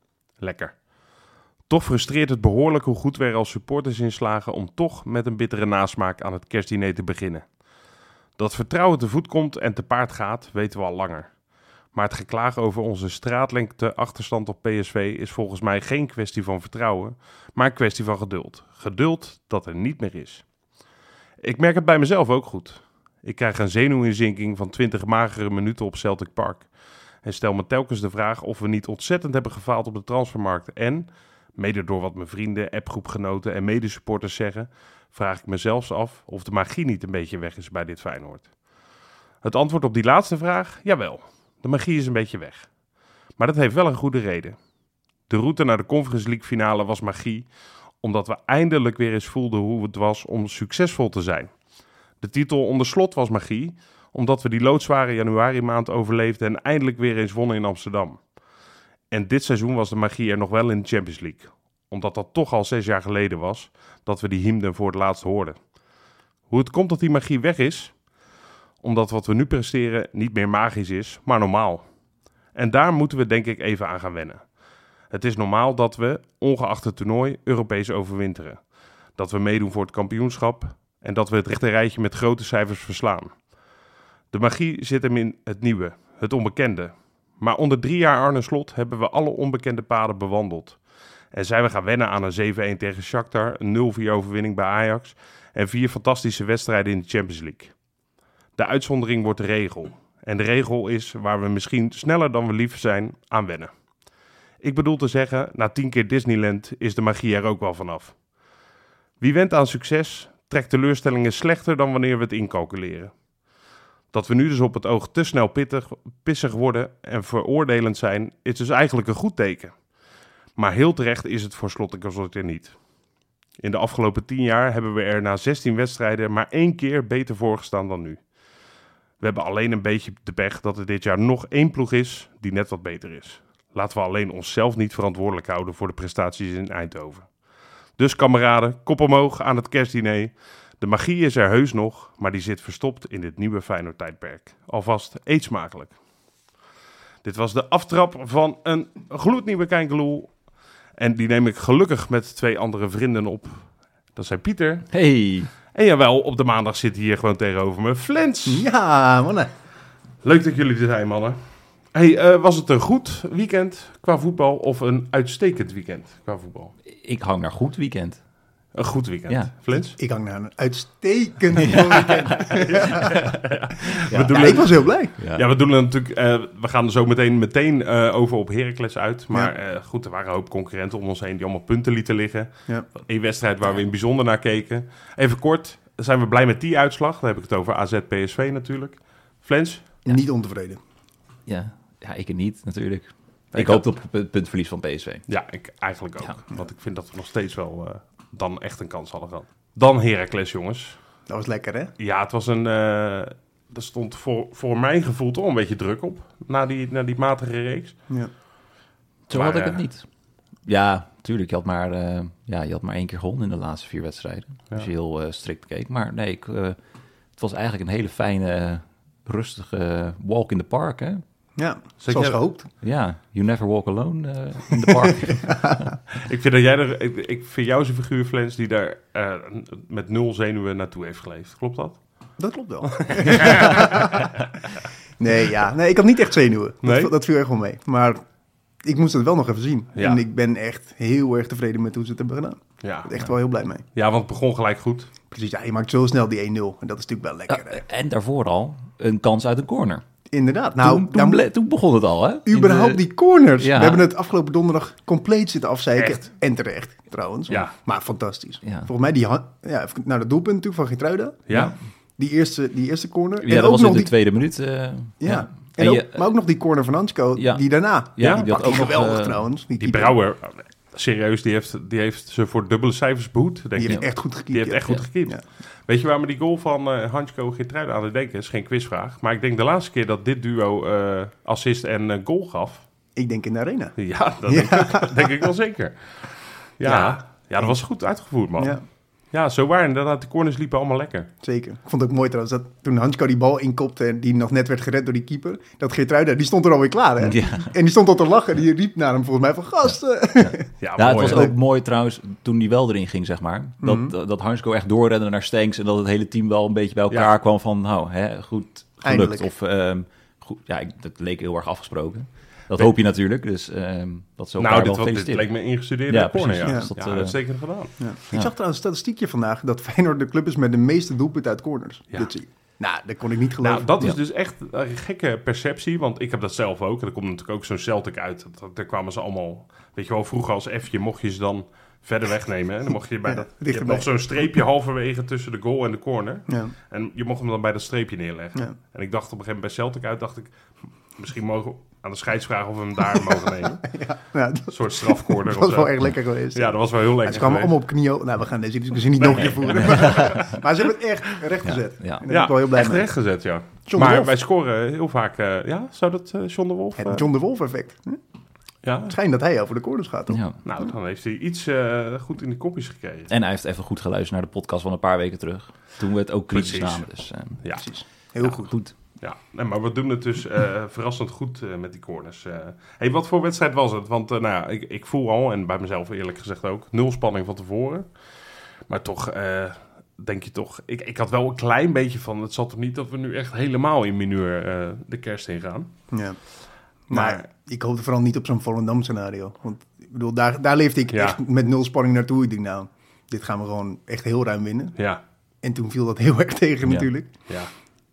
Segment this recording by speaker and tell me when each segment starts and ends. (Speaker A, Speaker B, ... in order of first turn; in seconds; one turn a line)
Speaker A: 0.4-7.6
Speaker A: 8.4-11.4
Speaker A: 11.9-20.5
Speaker A: 21.4-26.7
Speaker A: 27.2-38.5
Speaker A: 39.4-42.7
Speaker A: 43.4-44.6
Speaker A: 45.3-51.5
Speaker A: 52.2-58.2
Speaker A: 59.1-65.6
Speaker A: 66.5-68.0
Speaker A: 68.8-71.9
Speaker A: 72.5-74.5
Speaker A: 75.1-83.5
Speaker A: 84.3-90.8
Speaker A: 91.3-97.7
Speaker A: 98.6-103.7
Speaker A: 104.6-108.2
Speaker A: 109.2-113.2
Speaker A: 114.1-119.8
Speaker A: 120.6-122.8
Speaker A: 123.6-128.2
Speaker A: 129.2-137.3
Speaker A: 138.0-146.0
Speaker A: 147.2-150.3
Speaker A: 151.0-154.9
Speaker B: 154.9-155.5
Speaker A: 155.7-158.7
Speaker C: 158.4-159.5
Speaker A: 160.2-161.4
Speaker A: 161.9-166.7
Speaker B: 166.9-168.2
Speaker A: 168.7-170.0
Speaker C: 169.7-173.2
Speaker B: 171.6-172.3
Speaker A: 172.2-190.0
Speaker B: 174.1-174.5
Speaker C: 174.1-175.2
Speaker B: 175.2-175.4
Speaker C: 190.1-190.8
Speaker B: 191.5-195.3
Speaker A: 193.5-193.8
Speaker A: 195.3-201.0
Speaker C: 201.3-201.9
Speaker A: 202.0-208.0
Speaker B: 209.3-210.1
Speaker A: 209.3-209.8
Speaker B: 210.7-216.8
Speaker B: 217.4-221.2
Speaker C: 221.6-222.7
Speaker A: 222.0-222.5
Speaker B: 222.8-225.8
Speaker A: 226.1-232.0
Speaker C: 232.4-234.3
Speaker A: 232.8-234.3
Speaker C: 235.2-238.2
Speaker A: 236.8-237.1
Speaker C: 238.8-243.8
Speaker A: 239.9-240.2
Speaker A: 242.8-243.3
Speaker A: 243.9-245.1
Speaker C: 245.3-247.8
Speaker B: 247.5-250.0
Speaker C: 250.3-251.5
Speaker B: 250.8-254.1
Speaker C: 252.5-264.1
Speaker A: 256.0-256.2
Speaker B: 258.6-258.9
Speaker A: 261.5-261.7
Speaker B: 263.4-266.3
Speaker C: 265.2-270.1
Speaker B: 267.4-269.4
Speaker A: 268.2-268.7
Speaker A: 269.8-282.9
Speaker C: 273.8-275.4
Speaker C: 283.1-285.5
Speaker A: 284.0-291.3
Speaker C: 286.8-287.8
Speaker C: 288.6-288.8
Speaker C: 291.4-301.6
Speaker B: 297.2-297.7
Speaker A: 300.8-301.5
Speaker B: 300.9-315.5
Speaker C: 303.8-304.1
Speaker C: 309.0-309.5
Speaker A: 314.6-317.9
Speaker B: 316.1-317.4
Speaker C: 318.0-324.2
Speaker A: 323.6-340.6
Speaker C: 333.3-334.1
Speaker C: 336.5-336.7
Speaker A: 341.2-343.9
Speaker C: 343.8-353.1
Speaker A: 344.7-347.8
Speaker A: 349.2-350.6
Speaker B: 349.9-350.5
Speaker B: 351.6-352.3
Speaker A: 352.3-357.3
Speaker C: 353.9-354.3
Speaker C: 357.0-358.2
Speaker A: 358.8-359.2
Speaker C: 359.1-360.4
Speaker B: 360.3-360.6
Speaker A: 360.6-363.3
Speaker B: 363.3-367.6
Speaker A: 366.5-367.1
Speaker C: 367.8-368.8
Speaker B: 368.4-368.9
Speaker A: 369.2-378.1
Speaker A: 378.9-385.9
Speaker C: 386.1-386.4
Speaker C: 387.1-395.0
Speaker A: 387.1-387.4
Speaker A: 391.1-391.4
Speaker C: 395.6-397.4